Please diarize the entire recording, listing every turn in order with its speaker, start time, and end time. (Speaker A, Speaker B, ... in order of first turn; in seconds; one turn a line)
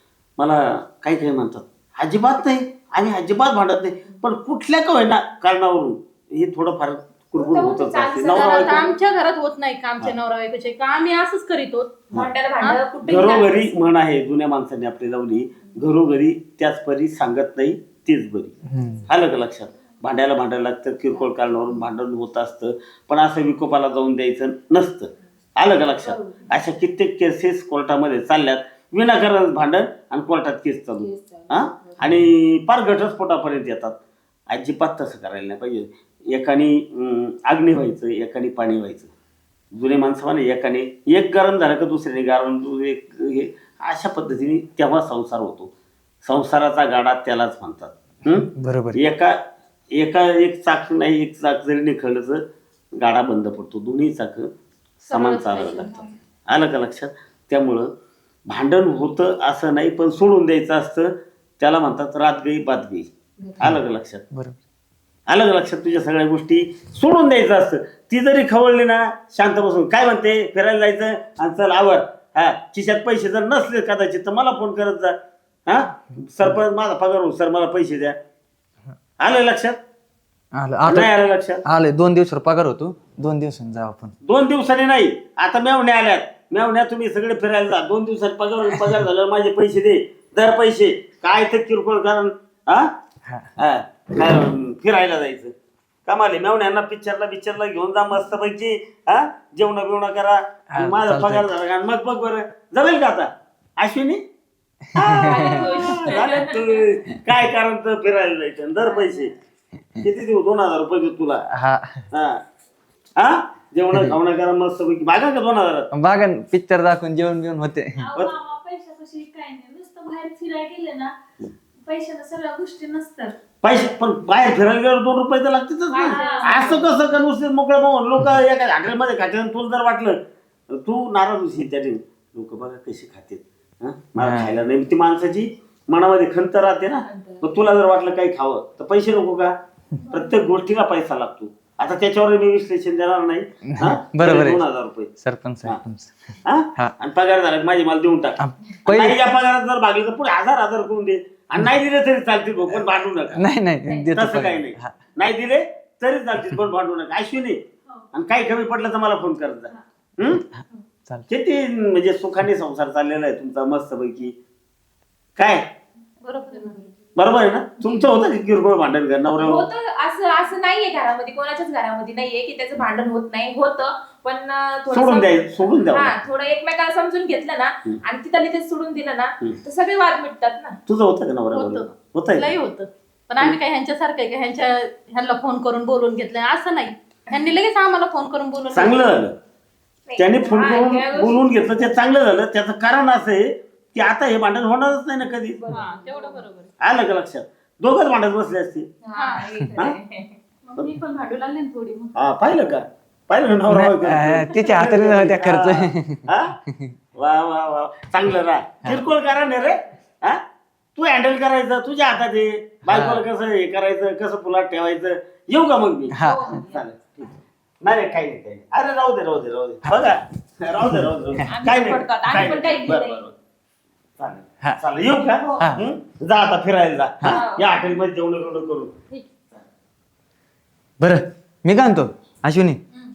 Speaker A: 0.4-8.8
Speaker B: 7.3-9.0
Speaker C: 8.3-12.0
Speaker B: 12.1-13.7
Speaker A: 13.0-18.5
Speaker D: 18.7-19.0
Speaker A: 19.1-34.0
Speaker B: 26.0-26.5
Speaker B: 31.0-32.0
Speaker A: 34.5-39.1
Speaker A: 39.7-45.7
Speaker A: 46.2-49.4
Speaker D: 48.5-49.0
Speaker A: 49.9-52.4
Speaker A: 53.0-54.5
Speaker C: 55.1-55.8
Speaker A: 55.1-57.9
Speaker B: 55.1-56.0
Speaker A: 58.5-64.2
Speaker A: 65.3-78.2
Speaker A: 79.2-79.8
Speaker D: 80.5-81.1
Speaker A: 80.9-81.6
Speaker D: 81.6-84.1
Speaker A: 84.2-92.9
Speaker D: 88.7-89.0
Speaker A: 93.6-95.5
Speaker A: 96.0-104.2
Speaker D: 100.7-101.5
Speaker D: 104.9-105.8
Speaker A: 104.9-109.3
Speaker B: 105.2-106.7
Speaker A: 110.0-111.4
Speaker D: 111.5-112.0
Speaker A: 112.1-112.4
Speaker A: 113.2-115.9
Speaker D: 115.9-118.1
Speaker E: 118.0-121.1
Speaker E: 121.8-123.3
Speaker A: 123.6-130.2
Speaker B: 125.9-126.9
Speaker E: 125.9-126.8
Speaker A: 130.7-139.5
Speaker D: 134.2-134.5
Speaker B: 137.0-137.5
Speaker A: 140.1-145.1
Speaker D: 143.6-144.6
Speaker D: 145.2-146.9
Speaker A: 146.4-153.4
Speaker D: 148.4-149.2
Speaker D: 153.3-154.9
Speaker A: 154.1-157.6
Speaker A: 158.1-160.4
Speaker A: 161.3-164.3
Speaker A: 165.3-165.7
Speaker C: 166.2-166.9
Speaker A: 167.2-169.7
Speaker B: 169.4-180.8
Speaker A: 174.9-176.2
Speaker A: 180.9-182.5
Speaker C: 181.5-189.2
Speaker A: 188.7-189.4
Speaker B: 190.1-192.0
Speaker A: 190.2-195.8
Speaker B: 195.7-196.4
Speaker C: 195.7-196.7
Speaker A: 196.8-198.9
Speaker B: 199.0-200.3
Speaker C: 199.2-199.7
Speaker C: 200.6-202.2
Speaker A: 202.1-206.5
Speaker D: 203.7-206.9
Speaker A: 207.1-210.4
Speaker A: 210.9-223.3
Speaker D: 212.8-213.2
Speaker D: 216.1-216.6
Speaker B: 216.2-216.8
Speaker B: 221.4-223.2
Speaker A: 224.2-228.9
Speaker B: 225.4-225.7
Speaker D: 225.6-225.8
Speaker B: 227.3-227.8
Speaker D: 231.0-232.8